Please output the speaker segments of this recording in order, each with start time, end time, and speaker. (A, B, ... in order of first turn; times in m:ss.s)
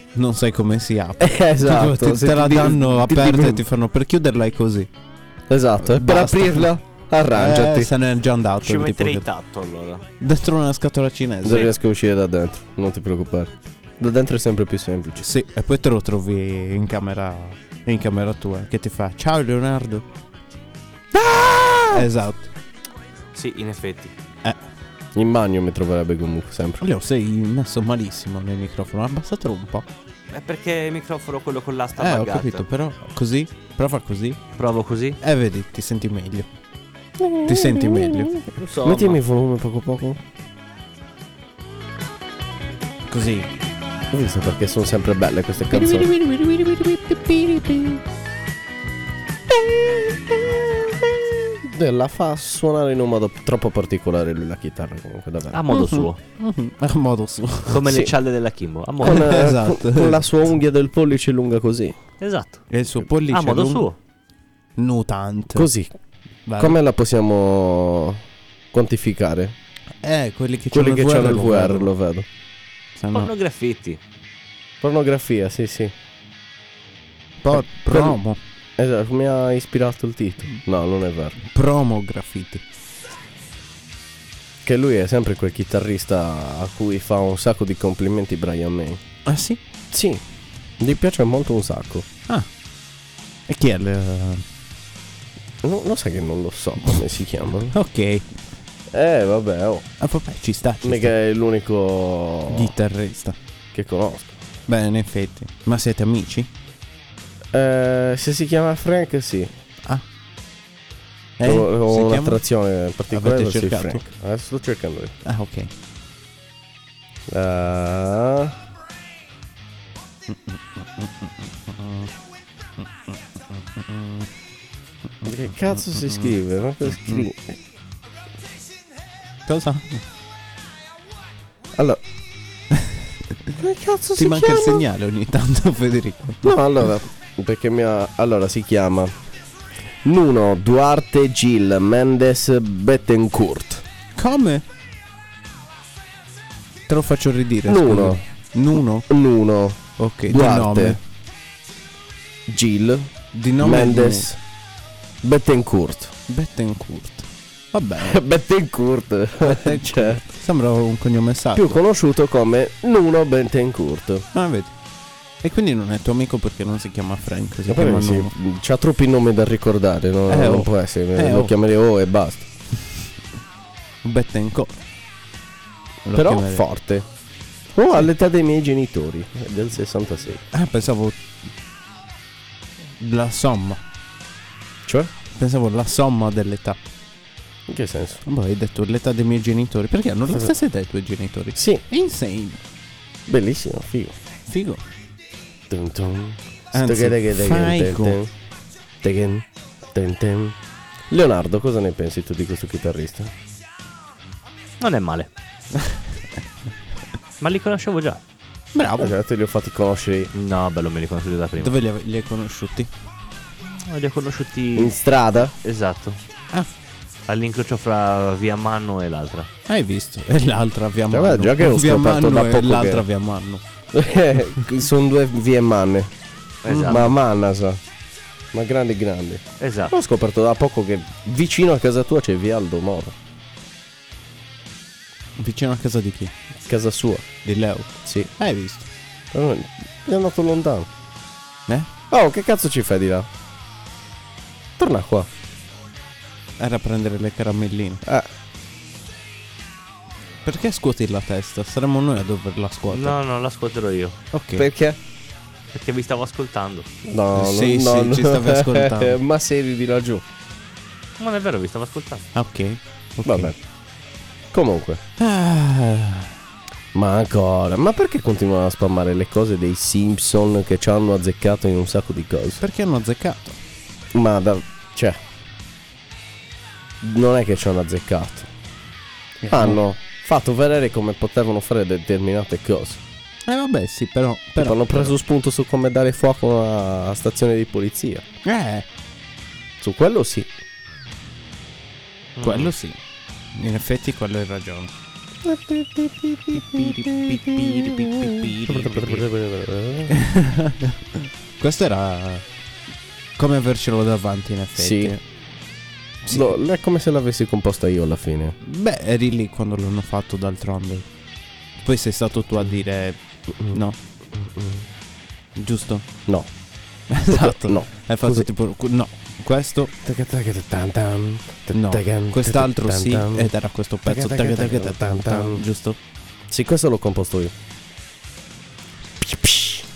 0:00.1-0:04.9 A
0:01.2-0:03.6 B
0:05.5-0:07.9 B
0:05.8-0:06.7 A
0:07.3-0:09.2 A
0:08.6-0:10.0 C
0:10.2-0:11.7 A
0:11.4-0:15.3 B
0:15.2-0:20.0 A
0:21.1-0:22.0 B
0:21.9-0:22.5 A
0:23.3-0:24.1 C
0:25.1-0:26.8 B
0:26.8-0:29.9 A
0:30.3-0:32.6 C
0:32.0-0:34.4 A
0:34.6-0:35.2 C
0:35.2-0:36.5 A
0:37.2-0:40.2 B
0:37.4-0:38.3 A
0:38.6-0:39.2 C
0:43.1-0:43.5 A
0:44.1-0:46.1 B
0:45.7-0:48.0 A
0:49.6-0:50.7 B
0:51.5-0:55.8 B
0:55.5-0:56.2 C
0:55.7-0:57.9 A
0:57.7-0:59.4 C
0:57.8-0:58.1 B
0:59.0-1:00.2 A
0:59.0-1:02.0 B
1:02.2-1:02.6 C
1:02.7-1:03.9 A
1:03.3-1:04.0 C
1:04.8-1:05.7 A
1:05.5-1:05.9 B
1:06.4-1:06.8 A
1:06.6-1:08.2 B
1:08.7-1:09.5 B
1:10.0-1:11.9 A
1:10.7-1:12.3 B
1:13.0-1:13.3 A
1:13.1-1:14.0 C
1:14.8-1:15.9 B
1:17.4-1:18.4 A
1:17.5-1:18.2 B
1:18.8-1:21.4 B
1:21.4-1:22.6 A
1:24.6-1:29.0 B
1:29.2-1:29.6 A
1:29.9-1:30.2 B
1:30.8-1:32.1 B
1:33.5-1:34.4 A
1:35.6-1:37.7 B
1:37.7-1:38.2 A
1:38.9-1:39.9 B
1:40.0-1:41.1 A
1:40.8-1:42.7 B
1:42.5-1:43.4 A
1:43.7-1:44.4 B
1:44.7-1:46.5 A
1:47.5-1:49.5 B
1:51.4-1:52.4 A
1:51.4-1:55.1 B
1:53.1-1:54.0 A
1:55.2-1:55.7 A
1:57.3-1:58.6 B
2:00.3-2:02.1 A
2:02.8-2:04.3 A
2:05.2-2:07.5 B
2:05.7-2:06.3 A
2:06.8-2:07.3 A
2:09.4-2:10.0 A
2:12.7-2:13.5 A
2:13.6-2:14.8 B
2:14.2-2:16.6 A
2:16.4-2:19.1 B
2:20.0-2:23.8 B
2:24.2-2:24.6 A
2:26.9-2:29.1 A
2:27.7-2:28.2 B
2:29.1-2:31.0 B
2:30.0-2:31.0 A
2:32.5-2:34.4 B
2:33.3-2:34.3 A
2:35.2-2:36.1 B
2:36.3-2:38.2 A
2:38.0-2:40.2 B
2:39.4-2:41.8 A
2:41.5-2:44.2 B
2:44.3-2:44.7 A
2:45.4-2:48.3 A
2:47.7-2:52.5 B
2:50.3-2:51.5 A
2:54.0-2:54.7 A
2:56.0-2:56.6 A
2:56.1-2:57.0 B
2:57.7-3:00.4 B
3:00.5-3:01.2 A
3:03.0-3:03.8 A
3:04.8-3:05.1 B
3:05.3-3:06.8 A
3:07.7-3:08.2 B
3:08.2-3:12.6 A
3:11.6-3:11.8 B
3:13.3-3:14.2 B
3:14.5-3:14.8 A
3:15.7-3:18.3 B
3:16.7-3:18.2 A
3:19.0-3:20.6 B
3:21.1-3:23.3 B
3:24.8-3:25.3 C
3:27.4-3:28.2 C
3:28.7-3:29.2 A
3:29.0-3:30.3 B
3:30.3-3:31.8 C
3:31.6-3:32.9 A
3:33.7-3:35.0 C
3:34.8-3:35.5 B
3:35.6-3:36.2 C
3:37.3-3:39.5 C
3:39.7-3:43.6 A
3:41.1-3:43.0 B
3:43.9-3:46.1 B
3:46.6-3:47.2 C
3:46.6-3:47.1 A
3:46.8-3:47.8 B
3:48.5-3:53.1 B
3:49.6-3:49.9 C
3:55.4-3:56.3 A
3:56.7-3:57.3 B
3:57.4-3:58.8 A
3:59.3-4:00.9 B
4:02.1-4:03.3 B
4:04.8-4:05.3 B
4:06.6-4:08.0 A
4:10.4-4:13.2 A
4:12.9-4:14.2 C
4:14.3-4:14.7 A
4:14.6-4:15.0 B
4:15.7-4:16.9 C
4:17.0-4:20.2 B
4:17.3-4:19.2 A
4:21.2-4:22.3 C
4:22.3-4:23.5 A
4:23.2-4:23.6 B
4:24.5-4:25.0 B
4:25.2-4:26.3 A
4:26.9-4:32.6 B
4:32.6-4:33.6 A
4:34.1-4:35.2 B
4:37.0-4:38.5 B
4:39.4-4:39.8 A
4:39.5-4:43.0 B
4:43.4-4:45.2 A
4:44.6-4:48.2 B
4:48.4-4:48.8 A
4:49.8-4:50.5 B
4:52.4-4:52.7 C
4:52.4-4:53.0 A
4:53.5-4:54.9 A
4:55.4-5:00.2 B
4:56.5-4:59.2 A
5:00.1-5:02.4 A
5:03.4-5:05.2 A
5:04.8-5:05.1 B
5:06.2-5:06.6 A
5:06.3-5:08.6 B
5:08.6-5:11.1 A
5:11.8-5:13.2 A
5:13.7-5:14.0 A
5:14.4-5:14.8 B
5:15.6-5:16.0 A
5:17.1-5:19.9 A
5:17.3-5:18.5 B
5:20.0-5:23.5 B
5:21.7-5:26.0 A
5:24.0-5:25.6 B
5:26.5-5:27.5 B
5:29.2-5:29.8 B